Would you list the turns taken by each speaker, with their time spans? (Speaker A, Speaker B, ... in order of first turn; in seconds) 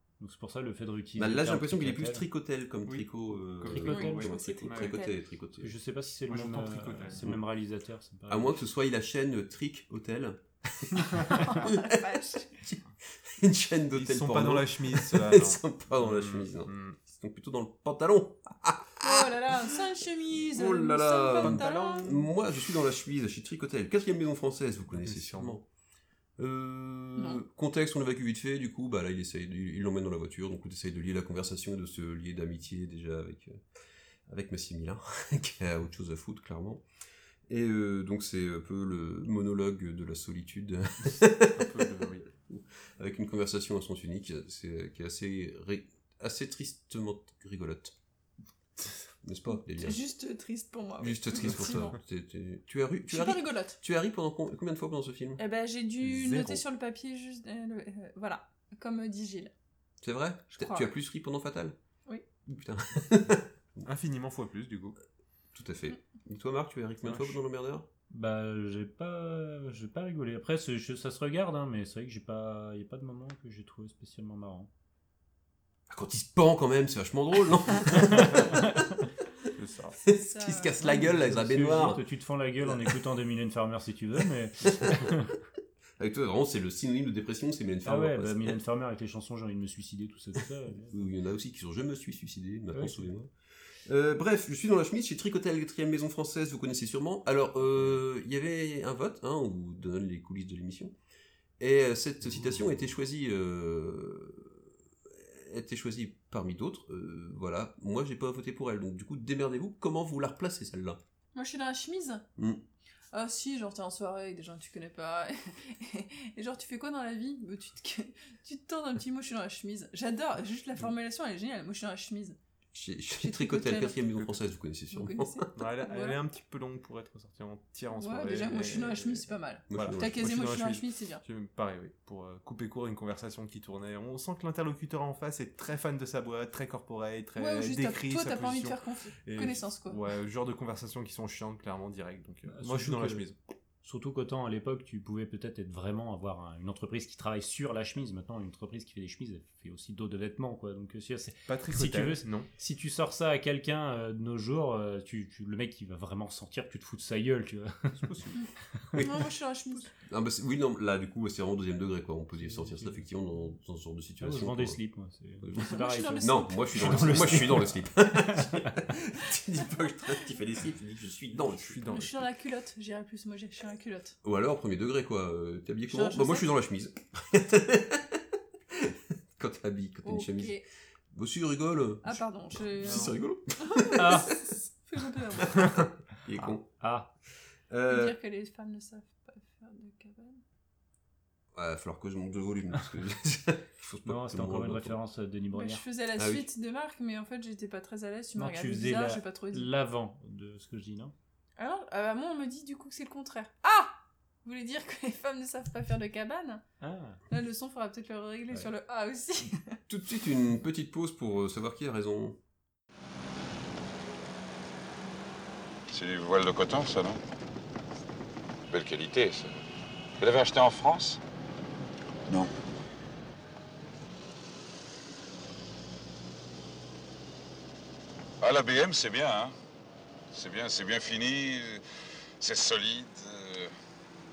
Speaker A: 0.2-2.2, 3.6-4.3, 5.6-8.6, 68.1-74.7, 80.8-85.3, 87.8-91.0, 92.7-93.1, 142.5-143.2, 143.8-158.1, 162.4-163.0, 164.2-168.7, 184.0-184.3, 186.8-187.1, 194.0-195.8, 198.3-201.1, 206.8-207.2
Speaker B: 1.1-5.7, 8.3-19.8, 20.4-25.6, 26.4-33.6, 34.3-36.8, 37.5-47.9, 49.2-50.0, 51.0-55.4, 60.0-61.8, 62.5-63.9, 65.5-67.8, 75.9-78.7, 80.0-82.0, 86.0-88.6, 90.9-93.3, 93.8-100.9, 101.6-111.0, 112.4-112.6, 122.7-125.5, 129.7-130.3, 158.9-159.3, 160.0-164.8, 165.4-172.1, 174.2-180.6, 181.1-184.2, 185.4-186.7, 187.7-188.2, 191.5-195.0, 196.2-196.5, 209.9-212.4
Speaker C: 2.8-5.0, 6.3-7.4, 13.9-17.0, 21.4-22.1, 24.9-25.6, 41.5-42.3, 51.4-51.9, 56.0-56.6, 63.8-65.0, 67.1-67.3, 79.5-80.0, 102.3-102.6, 125.5-143.4, 151.5-152.5, 157.9-158.3, 171.4-172.2, 182.8-183.1
Speaker D: 3.9-5.2, 11.2-12.5, 19.0-22.2, 27.2-27.4, 49.7-52.0, 53.1-53.8, 55.4-59.5, 60.5-60.9, 80.1-81.1, 111.3-112.2, 113.1-122.4, 123.2-124.0, 124.9-126.2, 127.9-131.2, 137.3-140.0, 158.3-159.9, 165.6-167.5, 171.9-174.2, 175.9-176.5, 180.0-180.6, 182.0-185.7, 187.9-190.4, 195.5-199.7, 201.6-206.6, 207.3-209.8
Speaker E: 215.9-217.2, 218.7-219.6, 220.2-221.2, 228.4-229.5, 230.3-231.8, 232.4-233.7